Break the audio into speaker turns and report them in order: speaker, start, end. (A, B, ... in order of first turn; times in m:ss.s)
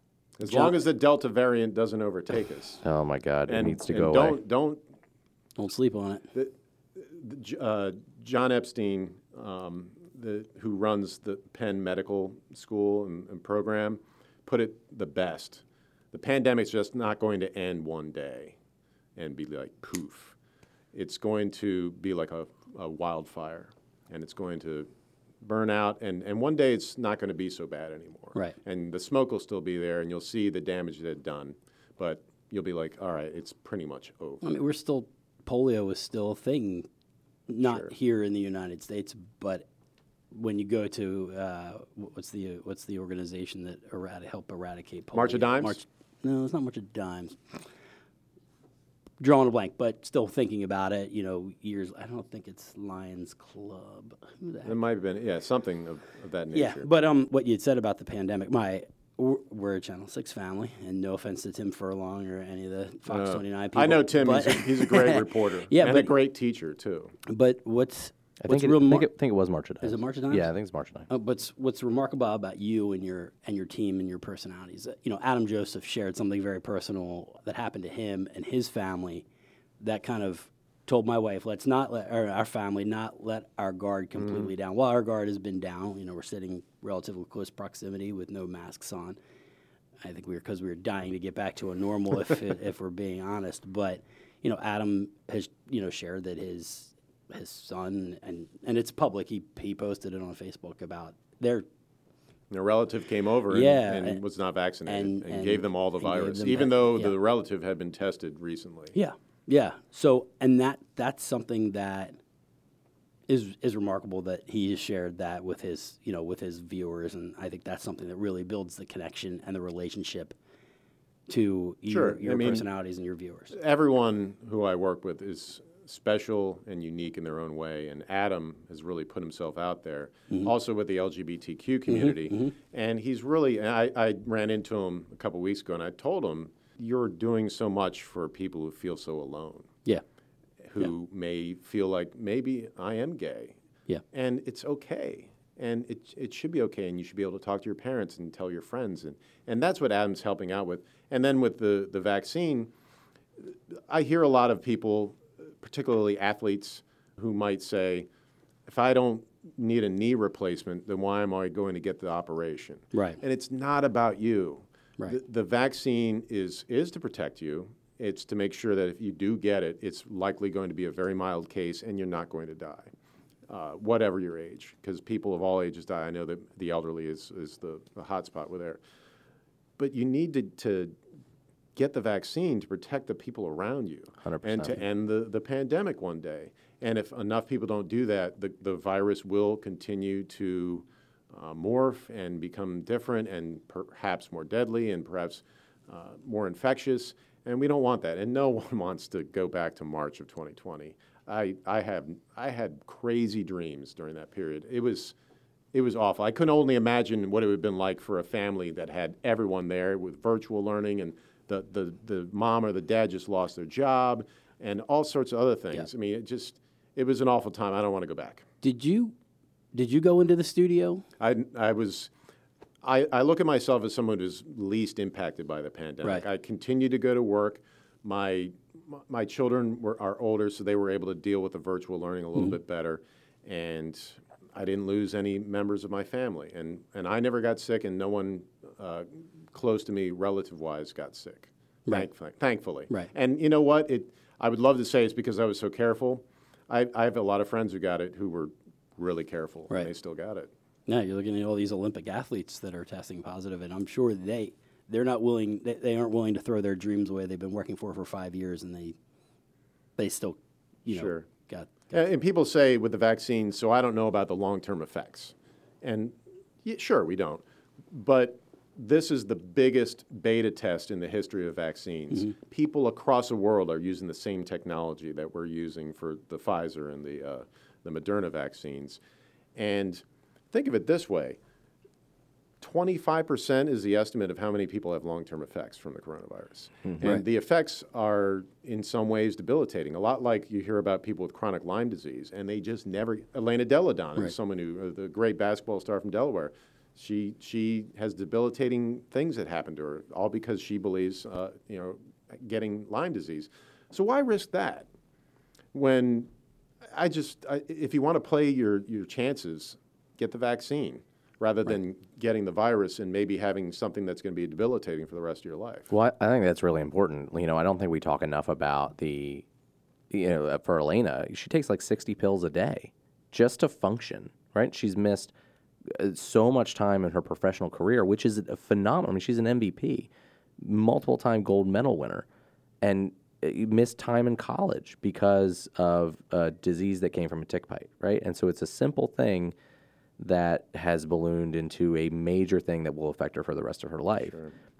0:00.4-0:02.8 A
0:00.5-0:00.7 B
0:02.8-0:04.4 C
0:03.5-0:04.8 A
0:05.6-0:06.3 B
0:06.3-0:18.6 A
0:19.2-0:20.4 A
0:20.9-0:24.9 A
0:25.4-0:34.6 A
0:34.4-0:36.9 B
0:37.5-0:39.6 B
0:37.6-0:37.9 A
0:40.3-0:47.6 B
0:45.1-0:45.8 A
0:49.2-0:54.8 B
0:54.6-0:56.9 A
0:56.5-1:06.1 B
1:03.1-1:07.2 A
1:07.3-1:09.1 B
1:08.4-1:11.1 C
1:09.8-1:10.5 B
1:11.1-1:19.2 B
1:19.8-1:29.2 B
1:30.0-1:41.6 B
1:42.5-1:49.0 A
1:43.5-1:44.2 B
1:44.9-1:47.2 B
1:48.9-1:52.2 B
1:53.3-2:00.4 B
2:01.3-2:03.5 B
2:01.9-2:02.6 A
2:03.5-2:19.7 A
2:11.9-2:12.5 B
2:20.7-2:23.6 A
2:24.1-2:32.7 A
2:33.4-2:38.1 A
2:38.7-2:52.9 A
2:42.9-2:43.2 B
2:53.5-2:58.8 A
2:59.8-3:01.0 A
3:01.8-3:25.2 A
3:04.2-3:04.8 C
3:25.7-3:38.5 A
3:38.6-3:39.2 B
3:39.7-3:41.0 B
3:41.2-3:42.1 A
3:42.8-4:10.5 A
4:10.9-4:19.0 B
4:20.0-4:22.0 B
4:20.9-4:21.3 A
4:21.9-4:39.0 A
4:39.6-4:41.4 A
4:42.6-5:04.9 A
5:05.7-5:06.3 A
5:06.9-5:15.9 A
5:15.9-5:19.5 C
5:20.1-5:25.3 C
5:25.9-5:32.3 C
5:32.8-5:39.6 C
5:40.2-5:44.4 C
5:44.2-5:44.5 A